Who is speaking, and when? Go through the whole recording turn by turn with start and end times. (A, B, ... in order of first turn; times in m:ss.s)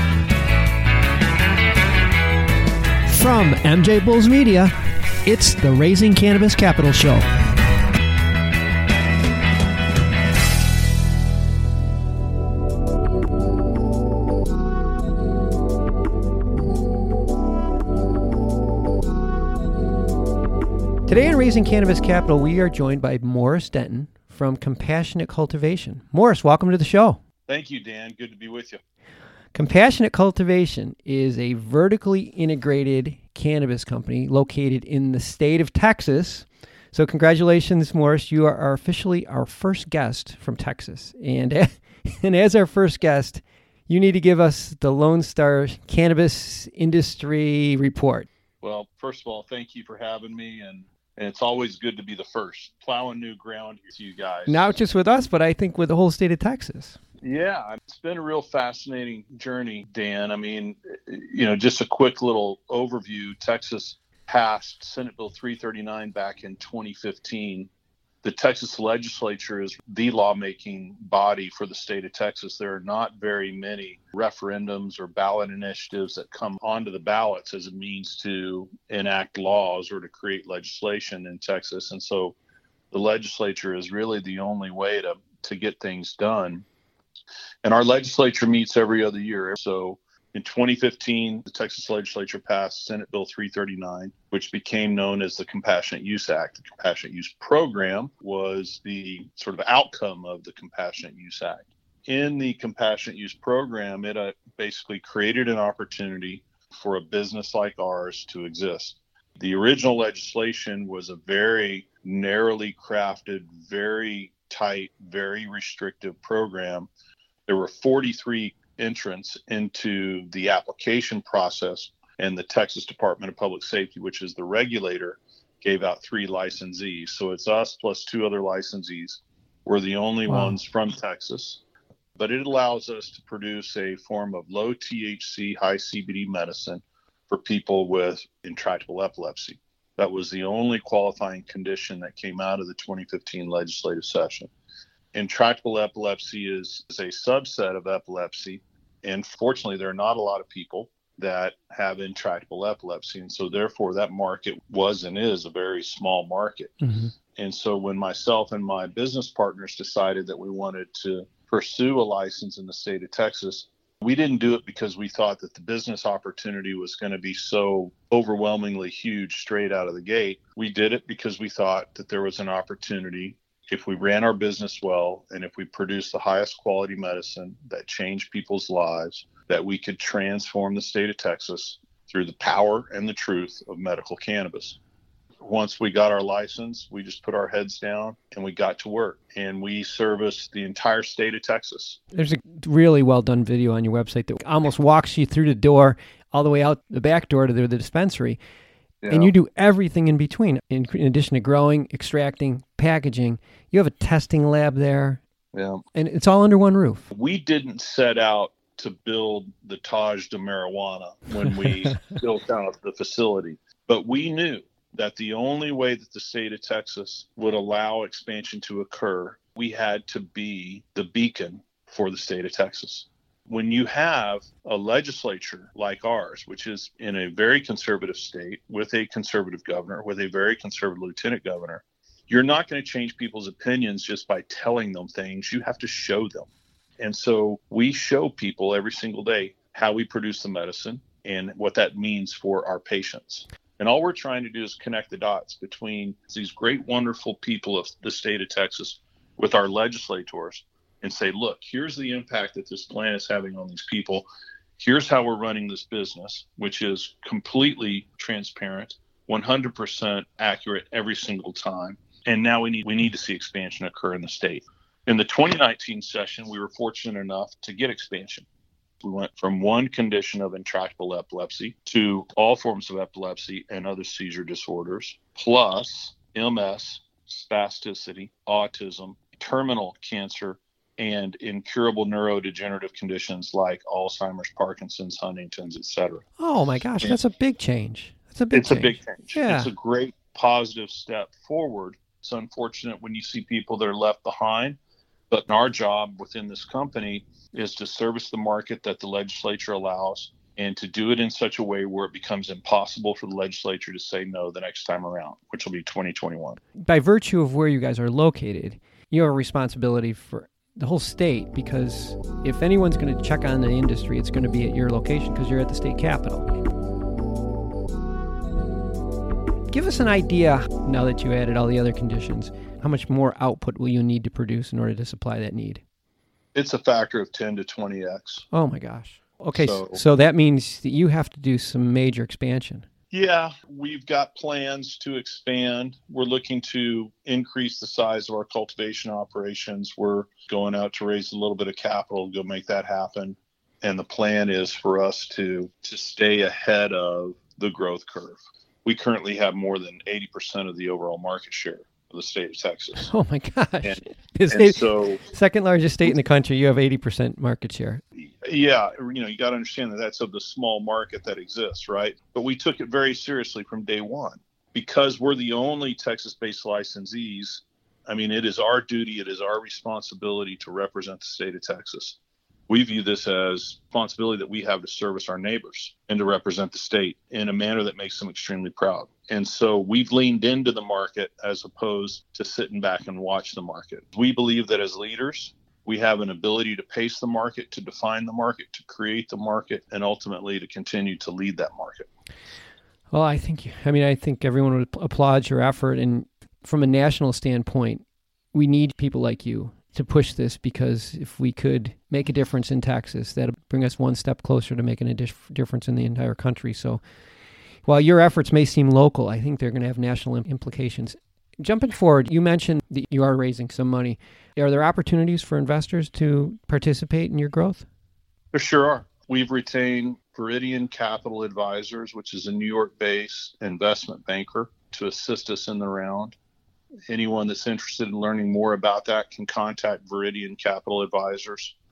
0:03.1-0:04.7 A
0:05.2-0:07.2 A
0:21.1-0:27.2 A
0:27.5-0:28.8 B
0:29.5-0:48.3 A
0:48.6-0:54.7 B
0:54.4-0:57.0 A
0:57.2-1:07.7 B
1:08.2-1:22.4 B
1:22.9-1:26.6 B
1:27.6-1:56.9 B
1:57.5-2:11.6 B
2:10.3-2:10.6 A
2:12.2-2:24.5 B
2:25.1-2:36.8 B
2:36.8-2:37.1 A
2:37.4-3:04.8 B
3:05.4-3:12.0 B
3:12.1-3:18.4 A
3:19.0-3:19.3 B
3:19.1-3:25.2 A
3:25.5-3:25.8 B
3:25.9-3:27.0 A
3:27.1-4:14.3 B
3:31.4-3:31.9 A
4:14.8-4:28.4 B
4:29.0-4:46.2 B
4:46.4-4:49.7 A
4:48.5-4:54.8 B
4:55.3-5:06.6 B
5:06.8-5:16.5 A
5:19.7-5:25.8 A
5:26.5-5:28.4 B
5:28.5-5:32.8 A
5:29.5-5:30.0 B
5:33.1-5:53.1 B
5:53.0-5:58.0 A
5:53.8-5:55.2 B
5:58.2-6:12.2 B
6:12.7-6:32.1 B
6:33.1-6:47.0 A
6:47.8-6:57.9 A
6:58.5-7:06.3 B
7:07.1-7:11.7 B